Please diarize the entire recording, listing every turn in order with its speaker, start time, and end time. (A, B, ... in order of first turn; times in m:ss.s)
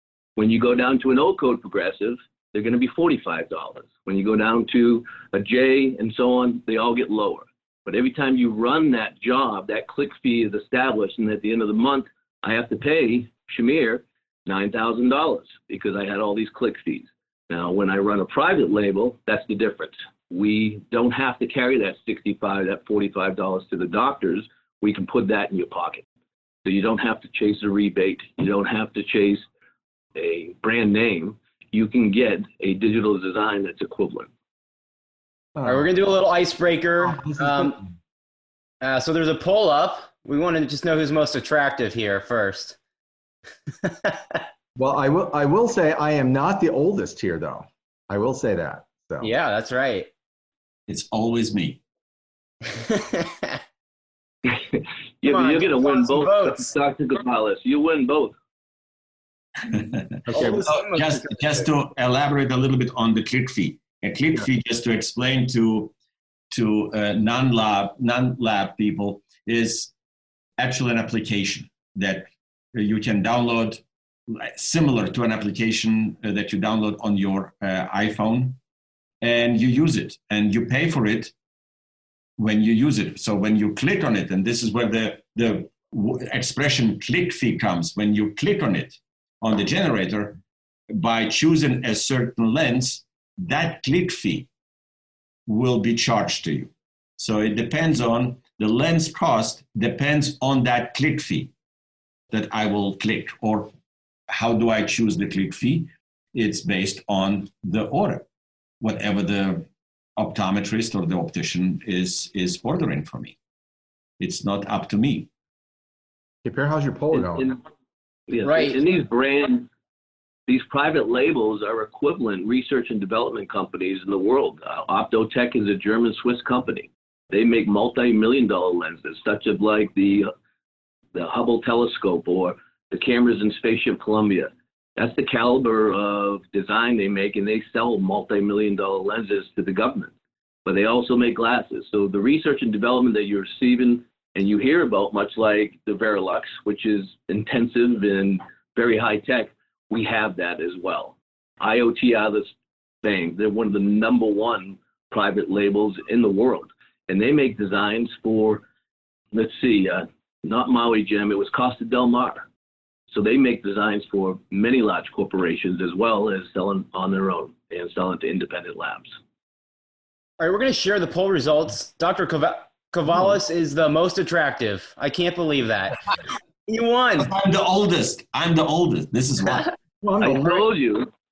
0:00.4-0:26.0 A
0:26.6-0:29.4 A
0:30.1-0:34.3 A
0:35.5-0:35.9 B
0:35.6-0:37.8 C
0:37.0-0:37.9 B
0:38.8-0:42.8 C
0:43.8-0:44.4 C
0:44.8-0:49.3 B
0:49.2-0:50.1 C
0:50.9-0:51.8 D
0:52.7-0:53.6 C
0:54.4-0:58.3 A
0:55.2-0:56.7 C
0:59.7-1:05.9 D
1:00.3-1:00.7 B
1:00.3-1:01.6 C
1:06.5-1:09.9 D
1:10.6-1:18.6 D
1:19.2-1:21.3 D
1:22.4-1:30.4 D
1:30.9-1:34.5 D
1:35.5-1:41.5 D
1:42.3-1:43.7 D
1:44.3-1:48.2 D
1:48.8-1:53.4 D
1:54.2-1:55.3 D
1:56.4-1:57.5 B
1:57.1-1:57.6 A
1:58.3-1:59.7 A
1:58.4-1:58.8 C
2:00.5-2:10.3 A
2:11.1-2:20.1 A
2:20.6-2:38.6 A
2:39.3-2:42.5 A
2:43.1-2:49.1 A
2:50.4-2:56.0 C
2:56.6-2:57.3 C
2:57.2-2:59.7 D
3:00.0-3:00.6 B
3:00.2-3:01.1 A